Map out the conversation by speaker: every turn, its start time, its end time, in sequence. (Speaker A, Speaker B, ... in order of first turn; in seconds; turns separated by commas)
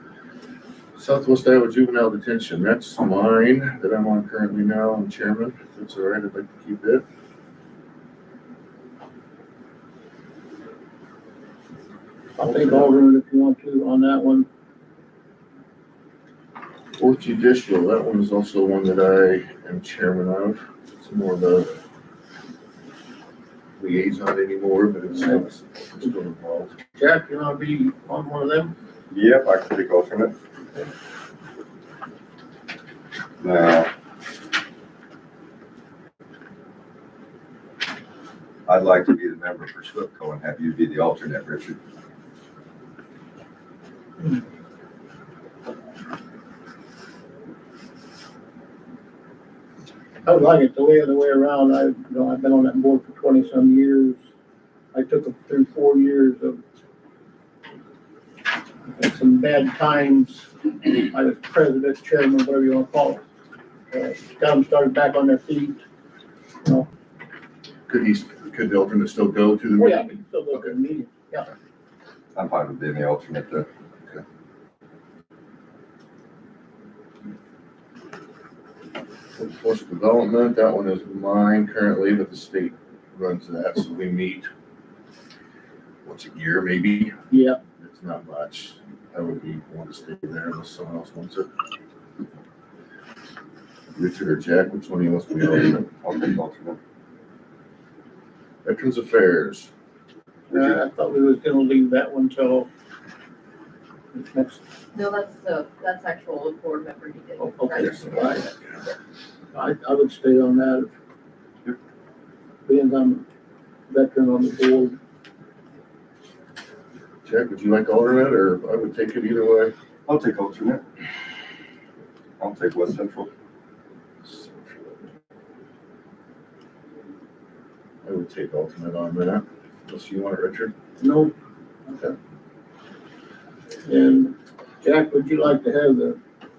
Speaker A: 0.9-7.0, Speaker B: 12.4-14.5, Speaker A: 12.4-12.9, Speaker A: 17.0-21.8, Speaker A: 23.8-26.7, Speaker B: 26.9-28.7, Speaker C: 29.1-30.3, Speaker C: 33.4-33.9, Speaker C: 38.7-41.8, Speaker B: 50.2-54.2, Speaker B: 54.9-56.6, Speaker B: 58.9-63.2, Speaker B: 63.9-65.8, Speaker A: 67.9-70.7, Speaker B: 69.8-71.5, Speaker C: 72.3-73.7, Speaker A: 79.4-84.5, Speaker A: 86.0-87.2, Speaker B: 87.3-87.6, Speaker A: 87.8-91.5, Speaker A: 94.0-96.0, Speaker C: 96.0-96.8, Speaker A: 98.6-99.7, Speaker B: 100.5-102.7, Speaker A: 100.5-100.8, Speaker B: 104.1-104.6, Speaker D: 104.9-108.3, Speaker B: 107.6-108.5, Speaker A: 107.7-108.7, Speaker B: 109.5-110.9, Speaker B: 112.7-113.2, Speaker B: 113.9-115.0, Speaker A: 117.2-119.7, Speaker C: 120.1-120.8, Speaker C: 122.4-123.3, Speaker A: 124.2-125.1, Speaker A: 128.0-130.7, Speaker B: 131.0-131.3, Speaker B: 131.9-132.1, Speaker B: 133.8-136.2